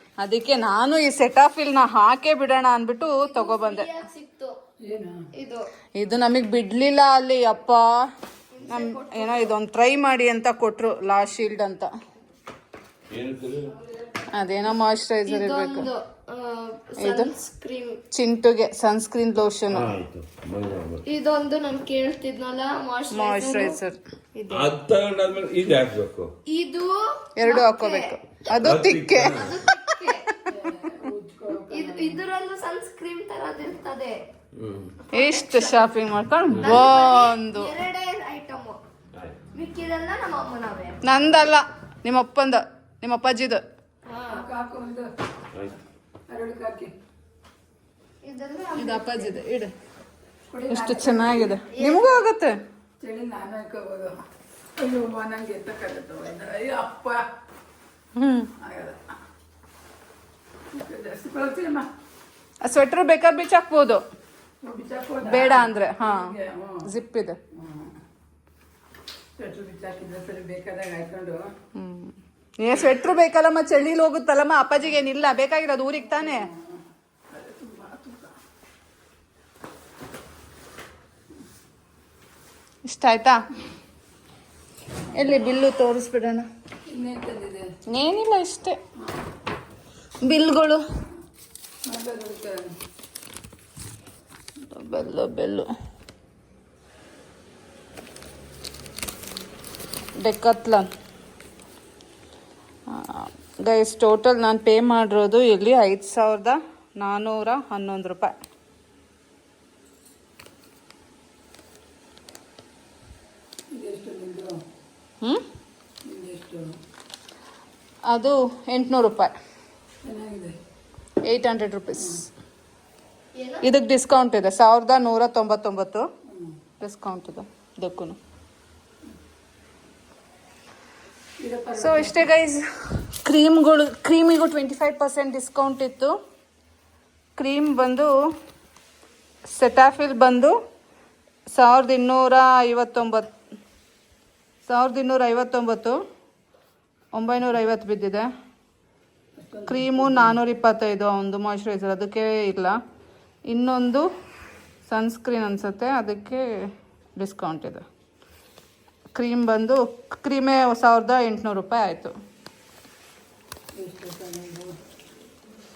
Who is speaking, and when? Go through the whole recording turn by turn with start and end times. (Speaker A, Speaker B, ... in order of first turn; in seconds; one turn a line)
Speaker A: 0.2-3.9
Speaker B: 3.2-4.5
Speaker C: 4.8-5.2
Speaker B: 5.3-5.7
Speaker A: 6.0-7.9
Speaker B: 8.5-9.6
Speaker A: 8.7-11.9
Speaker D: 13.1-13.8
Speaker A: 14.3-15.9
Speaker B: 15.2-18.0
Speaker A: 17.0-17.3
Speaker A: 18.1-19.9
Speaker D: 19.7-21.0
Speaker B: 21.1-23.8
Speaker A: 23.1-24.7
Speaker D: 24.5-26.3
Speaker B: 26.5-28.2
Speaker A: 27.4-30.5
Speaker D: 28.6-29.6
Speaker B: 29.2-30.3
Speaker C: 30.5-32.2
Speaker B: 31.7-34.2
Speaker D: 34.5-35.0
Speaker B: 35.1-35.9
Speaker A: 35.1-37.7
Speaker D: 36.5-36.9
Speaker B: 36.6-38.8
Speaker D: 39.1-39.4
Speaker B: 39.5-41.0
Speaker A: 41.0-43.6
Speaker B: 44.1-44.5
Speaker C: 44.3-45.1
Speaker C: 46.3-46.9
Speaker B: 48.2-49.4
Speaker A: 48.8-49.7
Speaker C: 50.5-51.6
Speaker A: 50.7-52.6
Speaker B: 51.7-52.2
Speaker C: 53.0-54.2
Speaker C: 54.8-57.2
Speaker A: 58.2-58.5
Speaker C: 58.6-59.0
Speaker C: 60.7-61.9
Speaker A: 62.6-64.0
Speaker C: 64.6-66.9
Speaker A: 65.2-66.3
Speaker A: 66.9-67.4
Speaker C: 67.5-68.0
Speaker C: 69.4-71.5
Speaker A: 71.8-76.5
Speaker C: 76.0-76.8
Speaker C: 77.3-78.3
Speaker A: 82.9-83.4
Speaker A: 85.1-86.5
Speaker C: 86.9-87.7
Speaker A: 87.9-88.8
Speaker A: 90.2-90.8
Speaker C: 91.9-92.7
Speaker A: 94.7-95.7
Speaker A: 100.2-100.9
Speaker A: 102.9-108.3
Speaker C: 113.7-114.6
Speaker C: 116.1-116.7
Speaker A: 118.1-119.3
Speaker C: 120.0-120.6
Speaker A: 121.2-122.2
Speaker B: 123.3-123.7
Speaker A: 123.6-126.1
Speaker C: 126.3-126.6
Speaker A: 126.8-128.2
Speaker C: 131.4-132.3
Speaker A: 131.8-132.7
Speaker A: 133.2-136.2
Speaker A: 137.4-138.1
Speaker A: 139.5-140.6
Speaker A: 141.5-143.3
Speaker A: 144.7-146.0
Speaker A: 147.2-148.3
Speaker C: 149.4-150.4
Speaker A: 149.7-152.8
Speaker A: 153.5-154.1
Speaker A: 154.9-156.6
Speaker A: 157.2-157.8
Speaker A: 159.2-162.1
Speaker C: 163.8-164.8